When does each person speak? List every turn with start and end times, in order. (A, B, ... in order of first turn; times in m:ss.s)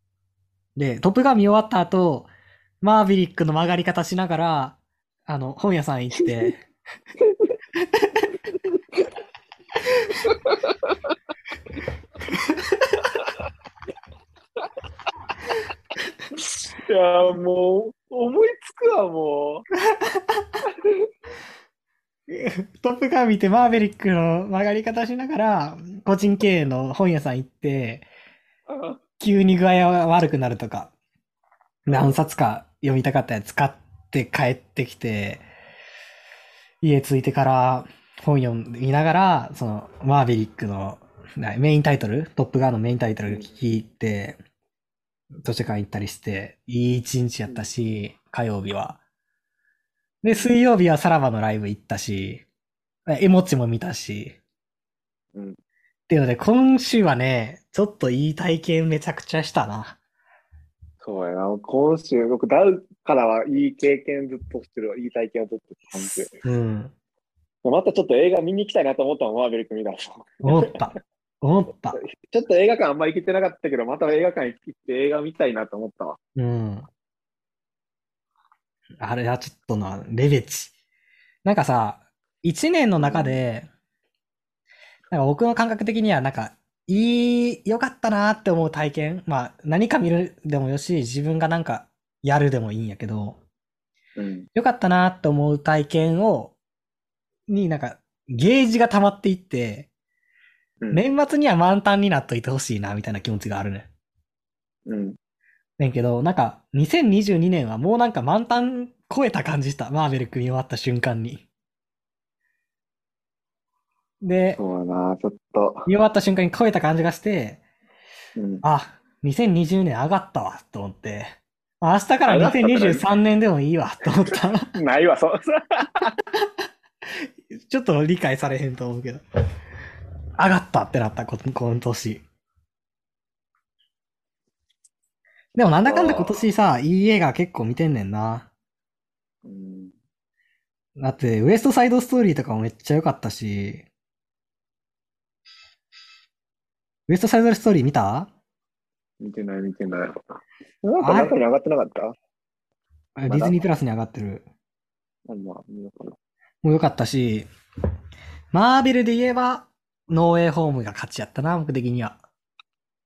0:00.8-0:02.3 A
0:02.8-0:06.6 A
0:07.2-0:07.5 B
0:07.8-0:08.3 A
0:10.2-0:10.9 B
0:12.3-0:12.8 A
0:16.7-0:19.6 B
0:19.9-0:20.5 A
0:20.7-0:21.0 B
0:22.3-0:28.1 A
0:28.7-0:29.0 B
0:29.2-0:30.9 A
0:31.8-0:35.4 A
0:31.9-0:32.2 B
0:36.8-0:44.4 A
0:43.3-0:43.5 B
0:45.4-0:49.0 A
0:50.2-0:52.4 A
0:53.1-0:54.4 A
0:56.1-1:00.0 A
1:01.0-1:06.3 B
1:05.9-1:06.9 A
1:07.6-1:10.8 B
1:10.4-1:12.0 A
1:11.9-1:16.2 B
1:16.4-1:16.9 A
1:19.0-1:20.7 A
1:21.4-1:23.7 A
1:23.0-1:23.4 B
1:25.1-1:33.4 A
1:34.2-1:34.5 B
1:34.5-1:36.5 A
1:37.5-1:39.9 A
1:40.9-1:43.9 A
1:44.9-1:45.2 B
1:45.8-1:51.4 A
1:54.2-1:54.6 A
1:54.5-1:55.9 B
1:55.9-1:57.6 A
1:58.4-1:58.6 B
1:58.6-2:04.7 A
2:02.3-2:03.0 B
2:04.7-2:06.1 B
2:07.0-2:09.2 A
2:10.4-2:12.2 A
2:15.5-2:18.5 A
2:15.8-2:16.4 B
2:19.4-2:19.9 B
2:21.0-2:23.8 A
2:27.1-2:28.3 A
2:29.2-2:30.2 B
2:30.8-2:32.1 B
2:31.0-2:31.3 A
2:33.2-2:34.4 A
2:33.3-2:33.6 B
2:35.3-2:36.2 B
2:36.6-2:37.5 A
2:38.5-2:42.2 A